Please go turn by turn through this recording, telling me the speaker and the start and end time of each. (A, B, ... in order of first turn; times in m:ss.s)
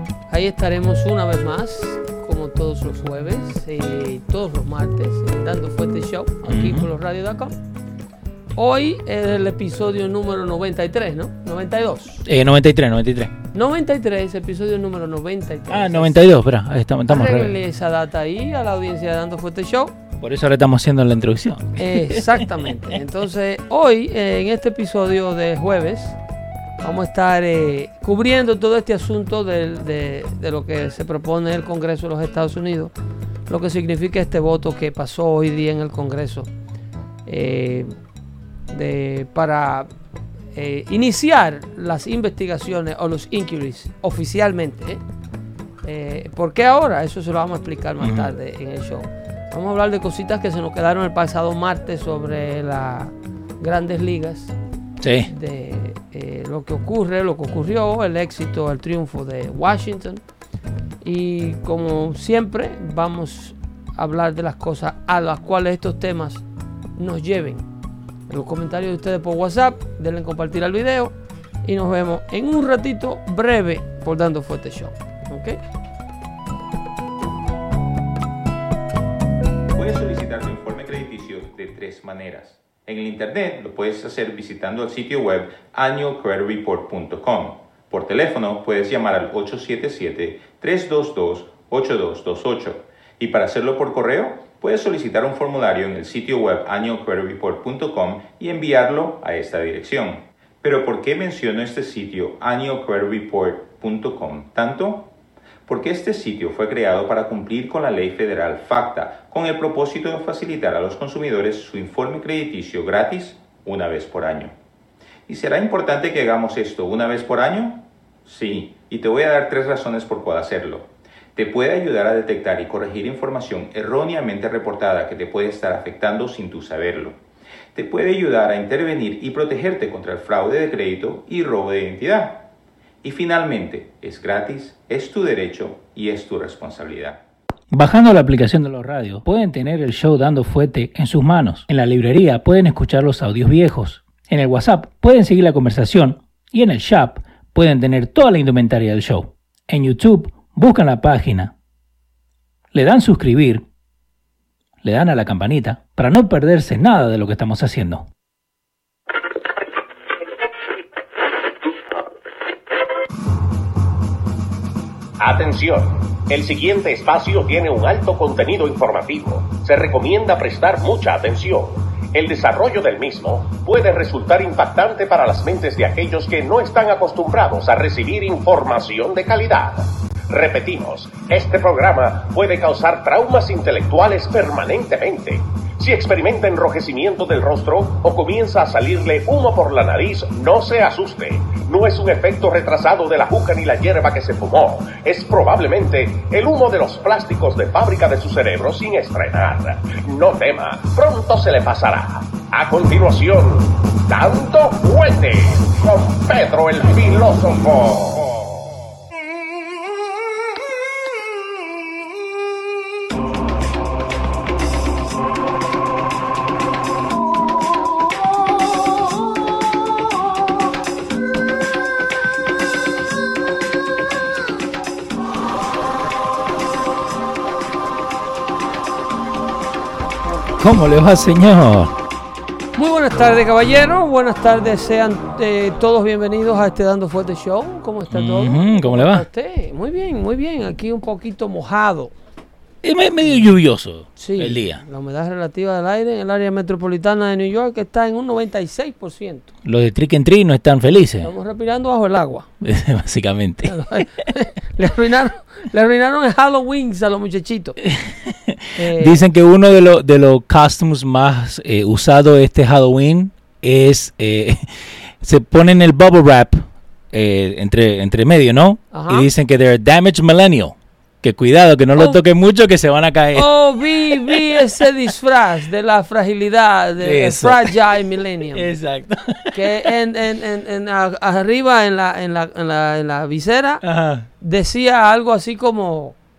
0:00.3-0:07.5 A
0:06.5-0:06.9 B
0:08.6-0:12.2 A
0:12.2-0:13.3 B
0:13.5-0:16.2 A
0:15.7-0:17.6 B
0:17.1-0:20.0 A
0:20.2-0:22.7 B
0:21.8-0:26.2 A
0:26.8-0:32.9 A
0:33.5-0:36.5 A
0:37.3-0:37.9 A
0:38.7-0:39.9 A
0:40.5-0:45.0 A
0:45.8-0:54.5 A
0:48.0-0:48.3 B
0:55.0-0:55.3 B
0:55.3-1:00.2 A
1:01.0-1:06.4 A
1:07.0-1:07.6 A
1:08.3-1:15.6 A
1:19.7-1:45.1 C
1:45.7-1:54.5 C
1:55.3-2:07.2 C
2:07.7-2:12.5 C
2:13.0-2:17.2 C
2:17.7-2:31.5 B
2:32.7-2:33.6 B
2:34.8-2:38.1 B
2:45.2-3:28.4 D
3:50.6-3:52.0 B
3:52.8-4:02.1 A
3:58.1-3:59.3 B
4:02.8-4:04.8 B
4:04.2-4:09.5 A
4:09.6-4:11.3 B
4:11.2-4:12.5 A
4:12.6-4:13.8 B
4:13.7-4:17.8 A
4:17.8-4:24.7 B
4:18.8-4:19.2 A
4:25.2-4:34.9 B
4:28.9-4:29.3 A
4:33.4-4:38.7 A
4:37.0-4:37.8 B
4:38.5-4:39.9 B
4:39.5-4:43.8 A
4:43.8-4:44.3 B
4:44.4-4:46.2 A